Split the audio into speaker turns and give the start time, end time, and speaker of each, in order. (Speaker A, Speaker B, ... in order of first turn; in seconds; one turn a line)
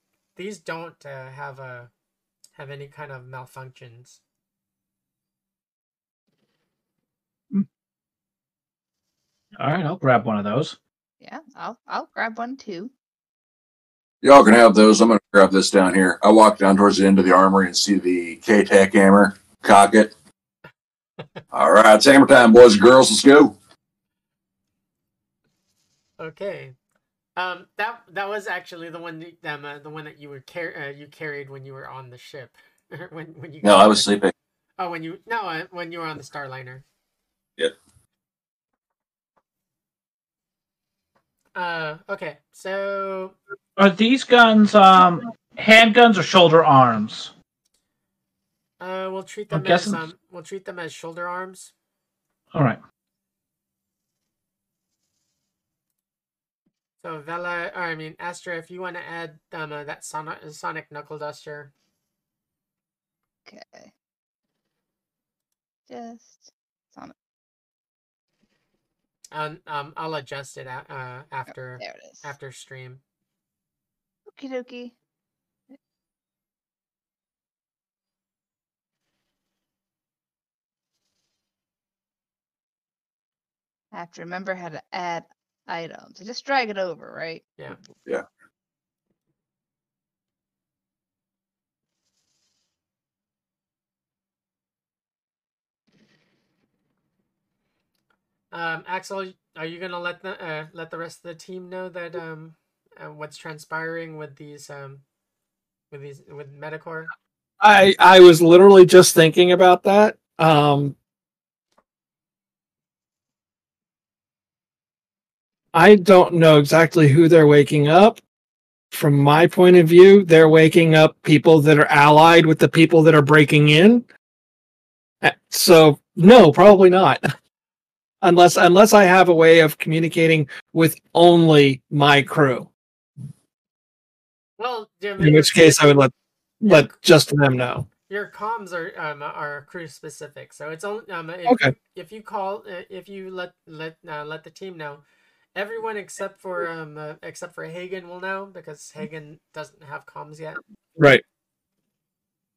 Speaker A: 0.3-1.9
Speaker A: 2.5-4.2
Speaker B: 9.6-10.8
Speaker C: 11.2-12.9
Speaker D: 14.2-20.1
Speaker D: 21.5-23.6
Speaker A: 26.2-26.7
Speaker A: 27.4-34.1
Speaker D: 33.6-34.3
Speaker A: 34.8-36.8
Speaker A: 41.5-43.4
Speaker B: 43.8-47.3
Speaker A: 48.8-51.7
Speaker B: 49.5-50.0
Speaker B: 52.5-52.8
Speaker A: 57.0-61.7
Speaker C: 63.5-63.9
Speaker C: 65.9-67.1
Speaker A: 69.3-73.0
Speaker C: 71.8-72.2
Speaker C: 74.3-74.9
Speaker C: 83.9-87.4
Speaker A: 98.5-105.0
Speaker A: 105.9-107.1
Speaker E: 107.6-111.0
Speaker E: 115.7-118.2
Speaker E: 118.9-124.0
Speaker E: 125.2-127.2
Speaker E: 128.2-132.7
Speaker A: 134.6-136.0
Speaker E: 135.2-137.9
Speaker A: 136.7-137.0
Speaker A: 138.1-145.0
Speaker E: 141.4-141.7
Speaker A: 145.6-150.6
Speaker E: 151.0-151.2